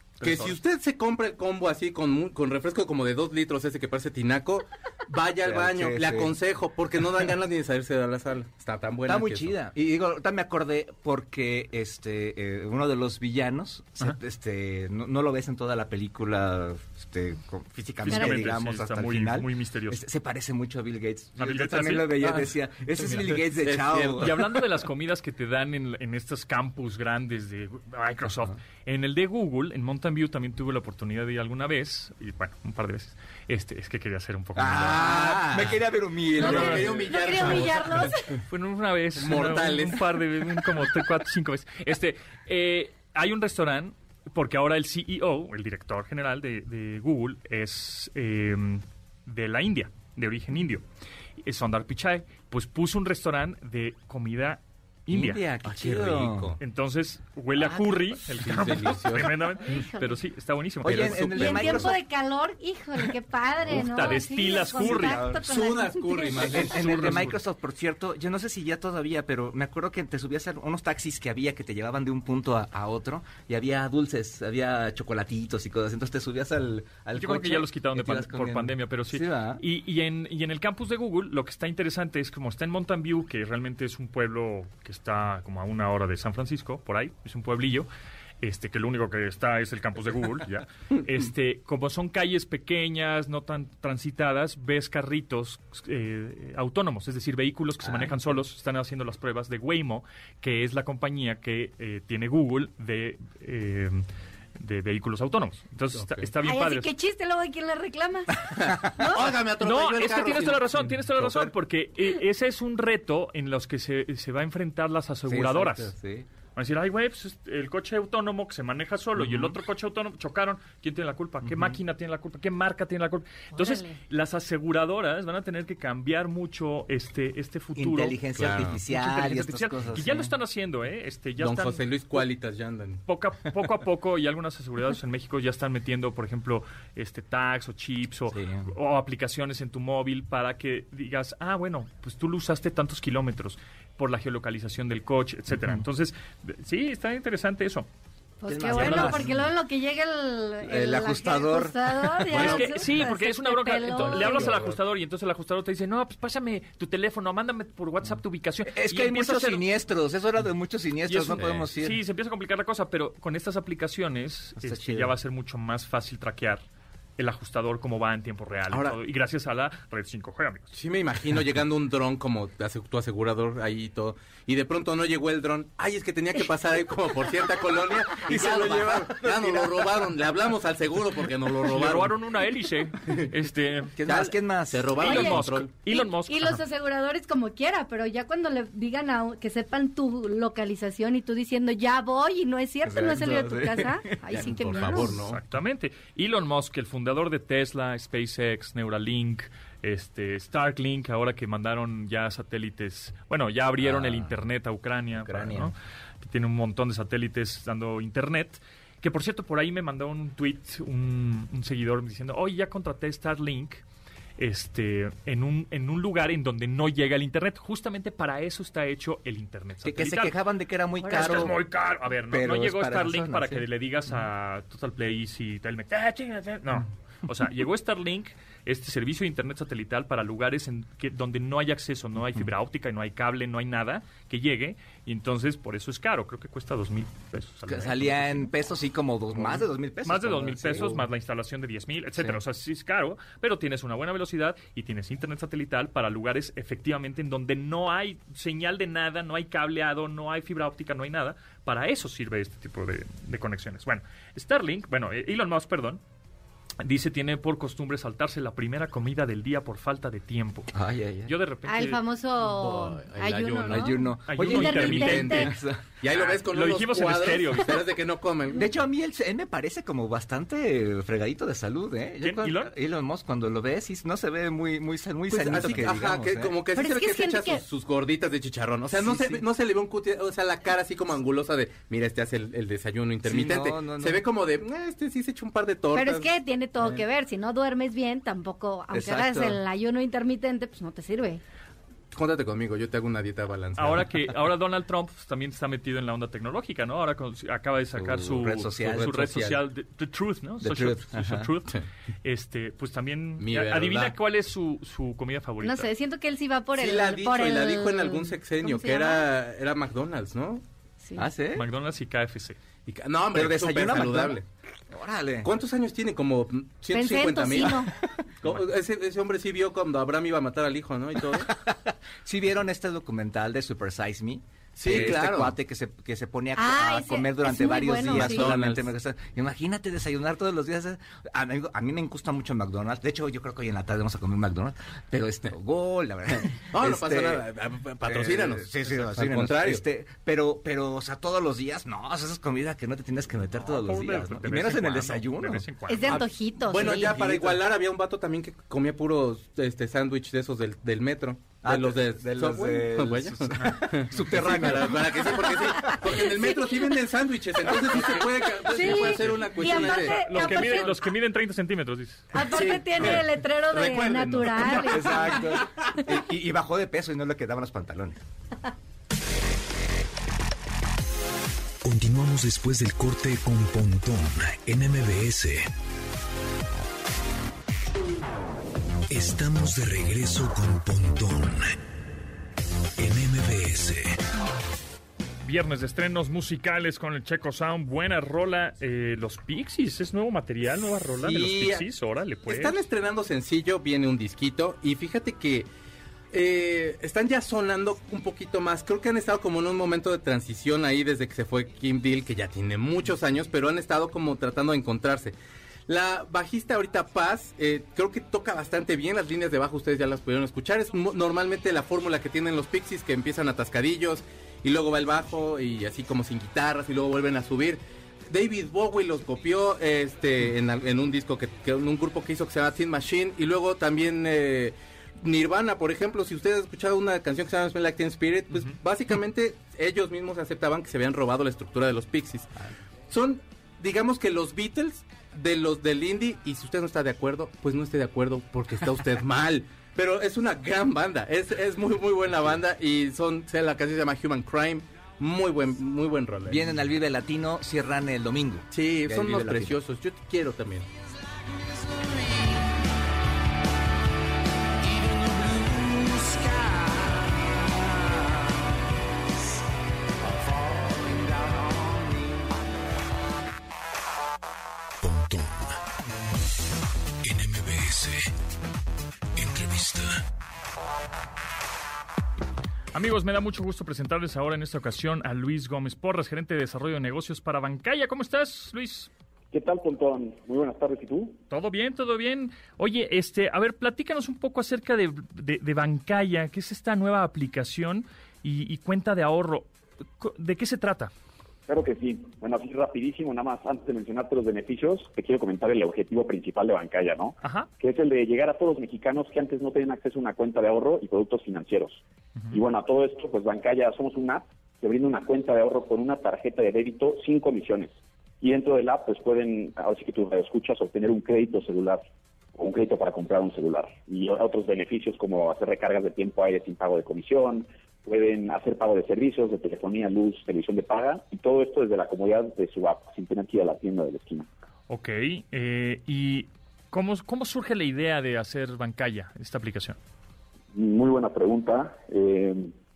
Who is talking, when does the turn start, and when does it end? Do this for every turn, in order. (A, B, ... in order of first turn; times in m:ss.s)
0:00.2-0:00.6 A
0:00.2-0:09.5 B
0:05.4-0:06.4 C
0:09.1-0:24.4 C
0:18.0-0:20.0 A
0:18.1-0:18.5 D
0:21.4-0:22.2 A
0:23.0-0:23.3 A
0:23.1-0:24.4 B
0:24.2-0:35.2 A
0:34.6-0:37.8 C
0:34.8-0:35.8 B
0:36.3-0:38.1 B
0:36.4-0:38.4 D
0:36.4-0:37.0 A
0:38.5-0:50.8 A
0:39.2-0:40.2 B
0:51.4-0:55.4 A
0:55.1-0:56.6 C
0:55.6-0:56.6 B
0:56.6-1:01.6 A
0:57.6-0:58.0 C
0:58.4-0:59.3 B
0:59.6-1:00.2 D
1:00.8-1:02.0 C
1:00.9-1:01.9 B
1:01.3-1:06.6 D
1:03.7-1:05.2 A
1:04.1-1:05.5 C
1:05.3-1:07.4 B
1:06.3-1:19.6 C
1:17.2-1:27.9 A
1:28.4-1:46.9 A
1:46.4-1:48.3 D
1:48.6-1:50.9 B
1:49.0-1:49.3 D
1:49.6-1:55.9 A
1:55.3-1:56.3 C
1:56.6-2:11.8 A
2:01.4-2:01.7 C
2:03.5-2:04.0 D
2:07.8-2:10.4 C
2:08.4-2:08.8 B
2:11.4-2:13.0 B
2:13.1-2:27.9 A
2:18.3-2:18.7 C
2:28.4-2:34.6 D
2:28.5-2:29.5 C
2:28.6-2:29.4 A
2:30.6-2:32.6 C
2:32.3-2:32.7 B
2:32.3-2:39.7 A
2:38.7-2:42.0 C
2:41.1-2:46.6 A
2:44.6-2:45.1 C
2:47.2-2:50.8 A
2:48.7-2:49.0 B
2:50.7-3:02.1 B
2:58.1-3:00.0 C
3:01.7-3:04.0 A
3:04.0-3:05.4 C
3:04.1-3:05.7 B
3:05.0-3:06.6 A
3:05.0-3:05.3 D
3:05.9-3:15.2 D
3:12.8-3:15.0 C
3:14.3-3:15.4 B
3:15.1-3:33.8 A
3:23.8-3:24.3 C
3:25.2-3:25.7 C
3:34.4-3:40.4 A
3:39.8-3:41.6 C
3:41.0-3:41.5 D
3:41.1-3:58.5 A
3:42.3-3:43.6 C
3:57.7-4:01.0 C
3:59.3-4:16.0 A
4:16.8-4:20.7 A
4:20.7-4:21.3 C
4:21.2-4:22.0 A
4:21.6-4:25.5 D
4:22.4-4:28.7 B
4:23.7-4:26.4 C
4:24.3-4:25.4 A
4:26.5-4:27.8 A
4:28.5-4:36.6 C
4:32.2-4:32.7 A
4:35.3-4:46.3 B
4:36.7-4:37.6 D
4:39.0-4:39.4 C
4:43.2-4:44.2 C
4:45.9-4:51.4 D
4:48.9-4:49.6 C
4:52.1-4:54.1 B
4:53.8-5:05.9 A
4:58.0-4:59.5 C
4:59.2-4:59.5 B
5:00.6-5:01.5 C
5:03.4-5:04.2 B
5:05.6-5:09.3 D
5:06.8-5:10.6 B
5:11.2-5:11.7 C
5:11.5-5:12.6 A
5:12.9-5:14.4 B
5:13.3-5:15.5 C
5:15.4-5:17.9 B
5:16.9-5:17.9 D
5:18.4-5:21.5 B
5:21.3-5:37.4 C
5:24.8-5:25.5 B
5:26.6-5:28.5 D
5:28.0-5:28.9 B
5:36.5-5:39.8 B
5:38.0-5:45.8 C
5:43.6-5:46.2 A
5:45.9-5:47.2 D
5:46.1-6:00.9 B
5:46.8-5:47.6 C
5:51.6-5:56.2 C
5:58.6-6:01.1 D
5:59.6-6:02.3 A
6:02.3-6:05.4 D
6:02.4-6:05.6 B
6:04.8-6:08.2 C
6:11.8-6:15.7 E
6:19.1-6:21.8 E
6:23.0-6:24.2 E
6:25.4-6:32.8 A
6:31.2-6:31.9 B
6:32.5-6:35.7 B
6:36.3-6:45.4 B
6:45.9-7:12.5 B
7:13.1-7:26.7 B
7:26.5-7:29.8 C
7:28.7-7:30.9 B
7:45.0-7:45.8 E
7:47.2-7:48.3 E
7:49.4-7:50.2 E
7:52.9-7:59.1 A
7:59.5-8:01.4 F
8:01.5-8:11.1 A
8:11.7-8:32.0 F
8:17.4-8:17.7 A
8:32.6-8:44.5 F
8:44.9-8:50.0 A
8:50.7-8:52.7 F